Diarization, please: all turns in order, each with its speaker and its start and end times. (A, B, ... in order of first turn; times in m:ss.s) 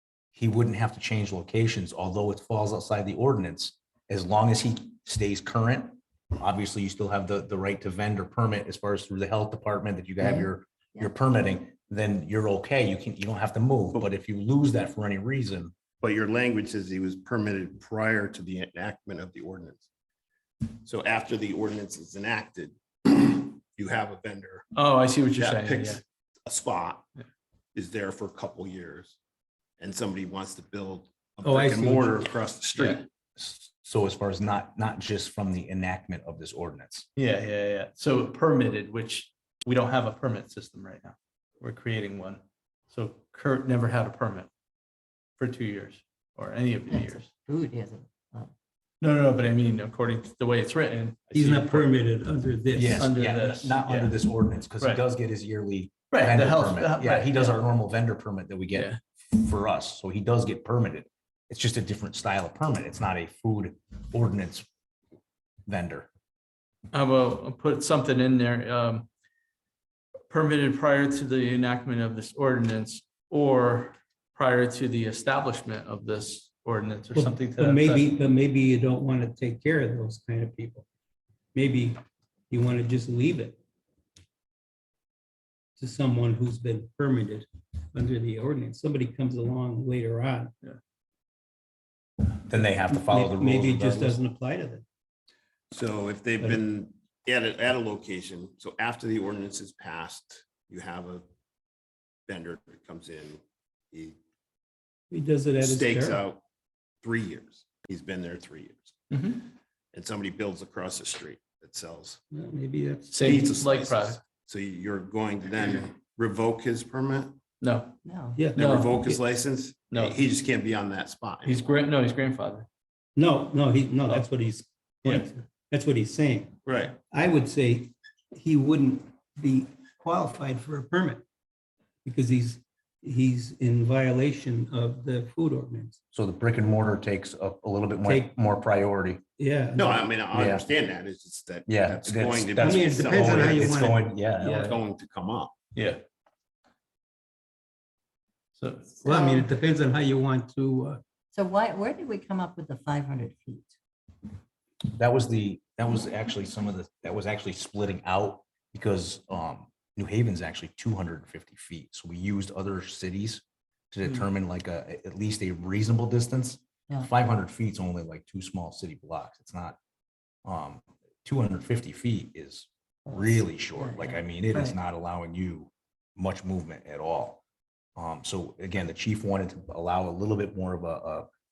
0:00.3-0:15.7 A
0:16.0-0:19.8 B
0:20.9-0:24.7 B
0:24.7-0:26.0 C
0:25.3-0:27.1 B
0:27.8-0:29.2 B
0:29.8-0:33.1 B
0:31.4-0:32.3 D
0:32.8-0:33.0 C
0:33.4-0:37.1 A
0:37.2-0:44.5 C
0:45.4-0:47.3 C
0:46.9-0:48.5 E
0:49.0-0:51.9 C
0:51.3-0:53.1 D
0:52.7-1:04.7 A
0:53.0-0:54.2 C
0:56.1-0:57.5 C
1:05.7-1:06.1 A
1:06.9-1:09.1 C
1:10.3-1:18.1 C
1:17.1-1:20.9 D
1:21.5-1:23.6 D
1:25.8-1:30.5 D
1:32.4-1:34.2 A
1:32.5-1:34.8 D
1:35.7-1:41.2 B
1:42.3-1:44.2 B
1:45.1-1:46.2 D
1:45.6-1:46.4 B
1:47.0-1:48.9 B
1:49.1-1:49.4 C
1:49.9-1:52.2 B
1:52.3-1:53.5 D
1:53.1-1:54.2 C
1:53.2-1:57.4 B
1:57.6-1:57.9 C
1:58.0-1:58.5 E
1:58.4-1:59.2 D
1:58.5-1:59.1 C
1:58.5-2:01.7 B
1:59.9-2:00.2 C
2:01.4-2:02.7 C
2:03.2-2:11.2 D
2:06.7-2:07.0 B
2:12.0-2:16.0 D
2:16.1-2:19.2 A
2:18.0-2:18.3 D
2:19.4-2:20.1 D
2:19.8-2:23.7 B
2:20.3-2:20.6 A
2:21.7-2:24.8 A
2:22.6-2:24.8 D
2:24.6-2:25.5 B
2:25.8-2:26.0 C
2:28.6-2:28.9 C
2:29.0-2:29.5 E
2:29.0-2:31.0 D
2:31.3-2:33.7 E
2:35.0-2:49.8 A
2:50.4-2:57.4 A
2:53.7-2:54.8 E
2:58.0-3:01.3 A